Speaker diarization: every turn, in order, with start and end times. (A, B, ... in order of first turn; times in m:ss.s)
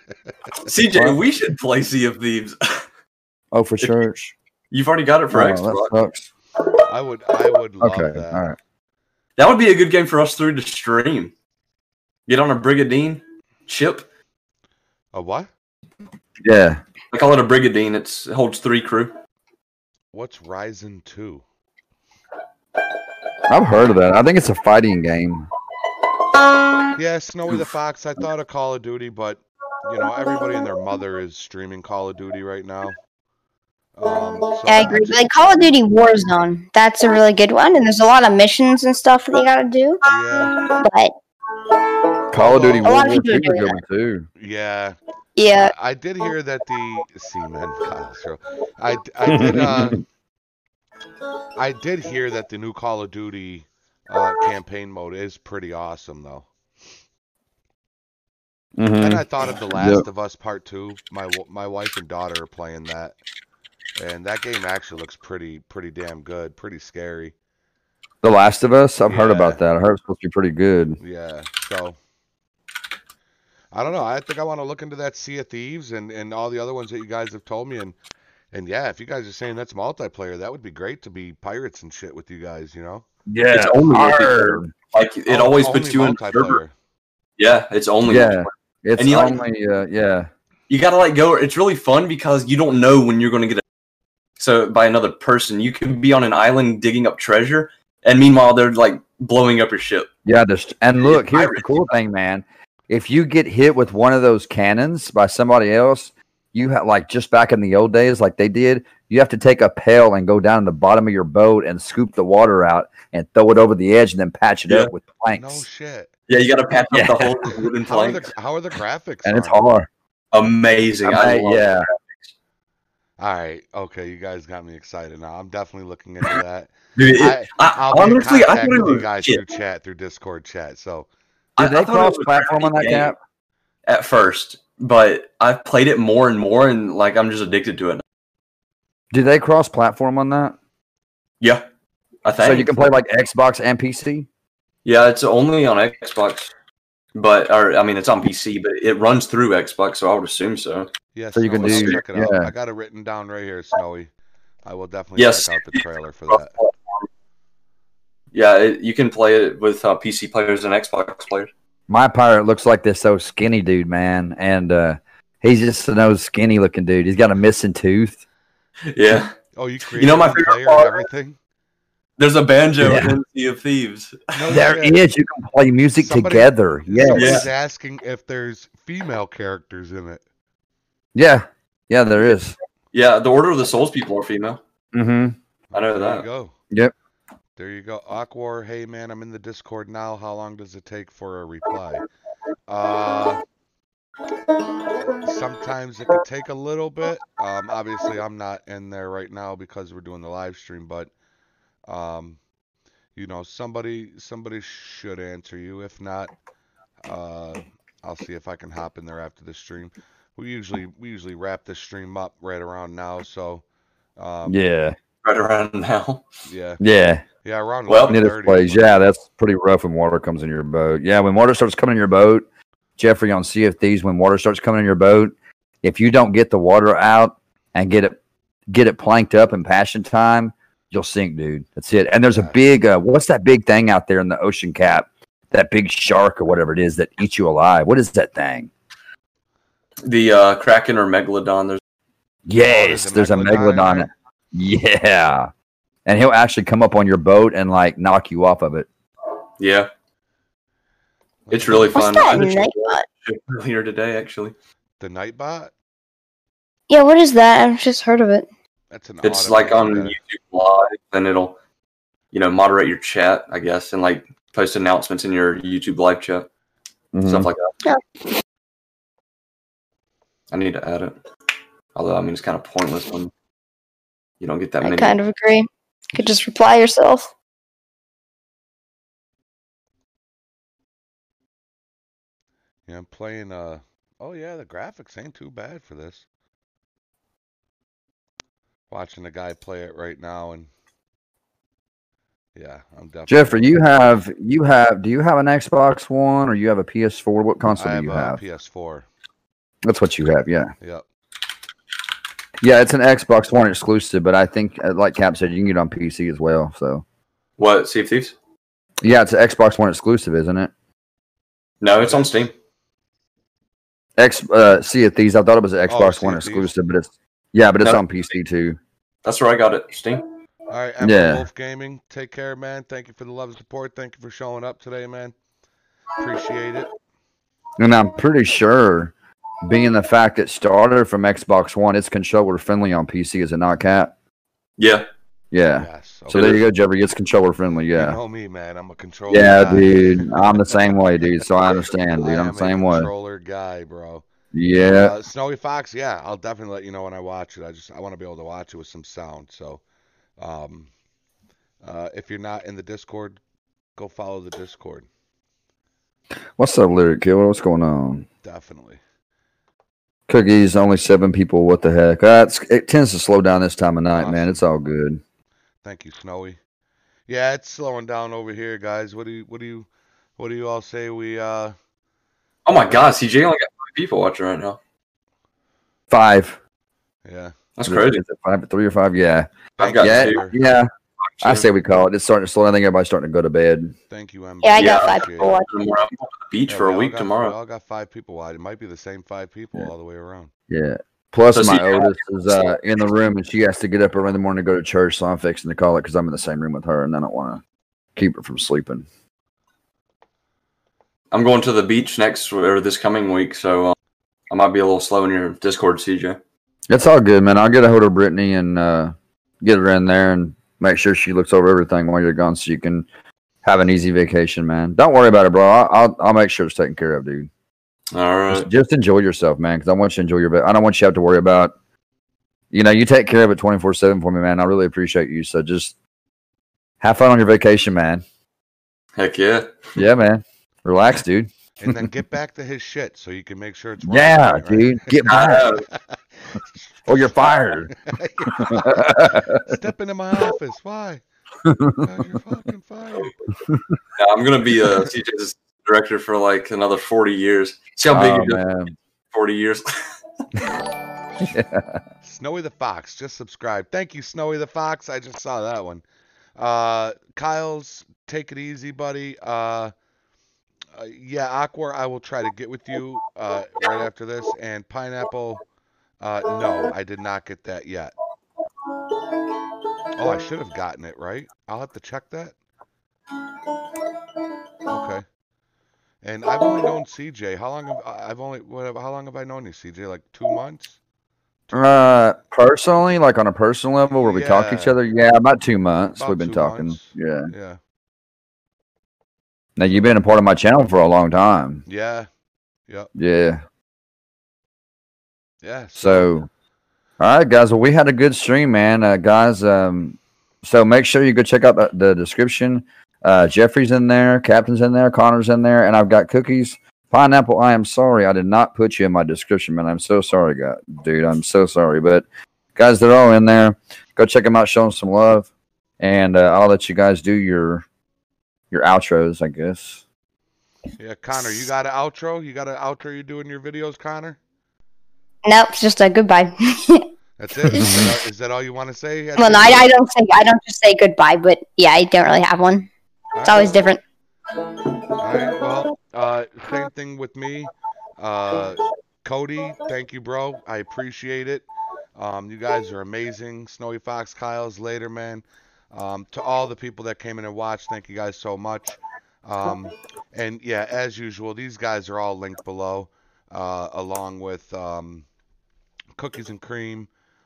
0:00.6-0:02.8 A
0:00.9-0:01.2 B
0:03.5-0:04.3 B
0:04.7-0:06.0 A
0:05.3-0:06.3 B
0:06.8-0:08.5 C
0:07.8-0:08.6 B
0:09.4-0:11.3 A
0:12.3-0:14.0 A
0:15.1-0:15.5 C
0:16.4-0:16.8 B
0:17.1-0:19.1 A
0:20.1-0:21.4 C
0:23.5-0:25.5 B
0:26.9-0:33.0 C
0:34.0-0:35.7 C
0:34.7-0:40.0 D
0:40.0-0:40.6 C
0:40.7-0:41.1 D
0:42.3-0:44.3 B
0:42.3-0:42.9 C
0:42.4-0:43.7 D
0:44.4-0:45.0 C
0:45.4-0:45.7 D
0:45.6-0:50.0 C
0:49.2-0:50.0 B
0:51.5-0:56.5 C
0:58.8-1:00.0 B
0:59.0-1:03.2 C
1:04.0-1:07.3 C
1:08.2-1:11.0 B
1:09.0-1:09.6 C
1:11.0-1:12.0 C
1:13.7-1:18.0 C
1:18.5-1:23.0 C
1:23.3-1:24.7 B
1:23.5-1:26.6 A
1:25.3-1:26.7 C
1:27.4-1:29.4 A
1:28.0-1:30.3 B
1:30.7-1:33.6 A
1:34.4-1:40.1 A
1:40.2-1:55.6 B
1:41.0-1:41.9 A
1:55.4-1:56.1 C
1:56.3-1:58.3 A
1:56.9-1:57.4 B
1:57.8-1:59.6 C
1:59.2-1:59.9 B
2:00.3-2:02.3 A
2:01.0-2:01.9 B
2:03.2-2:11.1 C
2:07.0-2:09.4 A
2:11.6-2:13.1 A
2:11.6-2:13.2 B
2:13.9-2:18.0 A
2:19.1-2:20.6 B
2:21.4-2:21.6 A
2:22.2-2:22.9 A
2:22.4-2:24.3 B
2:24.8-2:26.5 A
2:27.1-2:30.9 A
2:31.1-2:34.1 C
2:31.3-2:32.5 B
2:31.6-2:32.0 A
2:34.6-2:36.5 C
2:35.2-2:37.1 A
2:38.3-2:41.5 A
2:41.9-2:48.2 B
2:48.9-2:49.3 A
2:49.5-2:51.4 C
2:50.0-2:51.0 A
2:52.2-2:54.4 A
2:52.8-2:53.1 B
2:54.3-2:55.0 C
2:54.5-2:57.4 B
2:56.0-3:00.2 C
2:57.1-2:57.4 A
3:01.1-3:02.6 B
3:02.9-3:04.6 A
3:04.9-3:05.4 B
3:05.7-3:06.5 C
3:05.7-3:06.2 A
3:07.6-3:12.0 C
3:12.7-3:13.4 C
3:15.1-3:21.1 C
3:21.9-3:22.4 C
3:23.2-3:26.3 C
3:27.0-3:33.6 C
3:34.2-3:34.6 C
3:34.4-3:35.0 B
3:35.2-3:36.2 A
3:36.4-3:36.8 C
3:36.8-3:37.2 B
3:37.4-3:39.0 C
3:37.9-3:38.2 A
3:38.1-3:42.4 B
3:43.0-3:58.7 B
3:52.3-3:52.6 C
4:00.0-4:01.8 A
4:02.5-4:05.5 B
4:02.6-4:04.1 C
4:06.0-4:08.9 B
4:09.6-4:09.9 A
4:11.5-4:12.2 C
4:11.5-4:14.5 A
4:11.9-4:13.0 D
4:15.0-4:15.7 C
4:16.9-4:18.5 D
4:18.9-4:20.2 C
4:19.2-4:21.6 A
4:22.3-4:26.5 A
4:27.1-4:27.5 B
4:27.2-4:27.7 A
4:30.5-4:31.2 A
4:31.9-4:33.3 A
4:34.4-4:35.2 A
4:34.8-4:37.3 D
4:42.9-4:46.2 C
4:48.9-4:50.7 C
4:52.5-4:53.7 C
4:53.3-4:58.4 B
4:57.7-4:59.0 C
4:59.8-5:00.7 B
5:02.6-5:07.0 B
5:07.6-5:08.3 A
5:09.0-5:10.7 B
5:11.8-5:12.5 A
5:12.0-5:12.5 C
5:14.2-5:18.8 B
5:15.9-5:16.7 C
5:19.2-5:20.2 A
5:20.7-5:25.3 C
5:21.0-5:21.4 B
5:26.2-5:26.9 C
5:27.8-5:29.1 B
5:29.6-5:34.1 B
5:34.8-5:35.0 A
5:35.5-5:38.2 B
5:35.8-5:36.6 C
5:37.9-5:41.0 C
5:39.3-5:43.1 B
5:42.1-5:44.2 C
5:44.5-5:45.1 B
5:44.8-5:49.8 C
5:50.4-5:50.9 C
5:51.8-5:53.4 C
5:54.0-5:55.1 C
5:56.6-5:58.2 B
5:58.4-5:59.0 C
6:00.3-6:05.2 B
6:04.1-6:04.6 C
6:05.8-6:06.6 C
6:07.3-6:11.7 C
6:12.6-6:14.8 A
6:16.1-6:16.6 B
6:17.2-6:17.5 C
6:17.8-6:18.2 A
6:17.8-6:20.9 B
6:19.8-6:20.5 C
6:19.8-6:20.5 A
6:21.2-6:21.7 A
6:21.4-6:23.9 B
6:24.1-6:25.6 C
6:24.6-6:25.7 D
6:24.8-6:27.5 A
6:26.7-6:30.5 C
6:30.7-6:37.6 B
6:31.5-6:32.6 A
6:38.2-6:39.0 B
6:41.3-6:44.0 A
6:44.5-6:46.4 A
6:46.9-6:53.1 B
6:53.6-6:57.5 B
6:58.1-6:58.7 A
6:58.5-7:01.7 B
7:02.7-7:05.9 B
7:07.0-7:08.2 B
7:09.2-7:10.0 A
7:10.0-7:12.1 B
7:11.8-7:15.6 C
7:14.0-7:15.7 B
7:15.2-7:15.8 A
7:16.5-7:21.2 C
7:17.1-7:17.9 B
7:18.5-7:19.7 B
7:21.6-7:22.0 B
7:21.9-7:23.3 C
7:24.2-7:28.7 A
7:28.1-7:28.9 B
7:29.3-7:30.0 A
7:31.4-7:32.0 B
7:32.2-7:36.0 C
7:36.6-7:39.9 C
7:40.9-7:45.6 C
7:46.2-7:48.1 C
7:50.1-7:52.5 C
7:54.9-7:55.2 C
7:56.2-8:01.0 C
8:01.7-8:02.0 C
8:01.7-8:07.5 B
8:04.2-8:05.0 C
8:06.1-8:07.8 C
8:09.8-8:11.8 B
8:11.8-8:12.3 C
8:13.2-8:13.6 B
8:15.6-8:16.3 C
8:16.0-8:16.5 B
8:17.2-8:32.2 B
8:32.8-8:35.5 B
8:36.0-8:37.8 B
8:38.7-8:40.0 B
8:41.0-8:44.4 C
8:45.4-8:47.1 D
8:47.4-8:49.9 C
8:47.6-8:48.1 B
8:49.4-8:52.9 D
8:53.3-8:54.0 C
8:53.4-8:54.0 D
8:55.1-9:15.2 C
9:16.2-9:17.1 C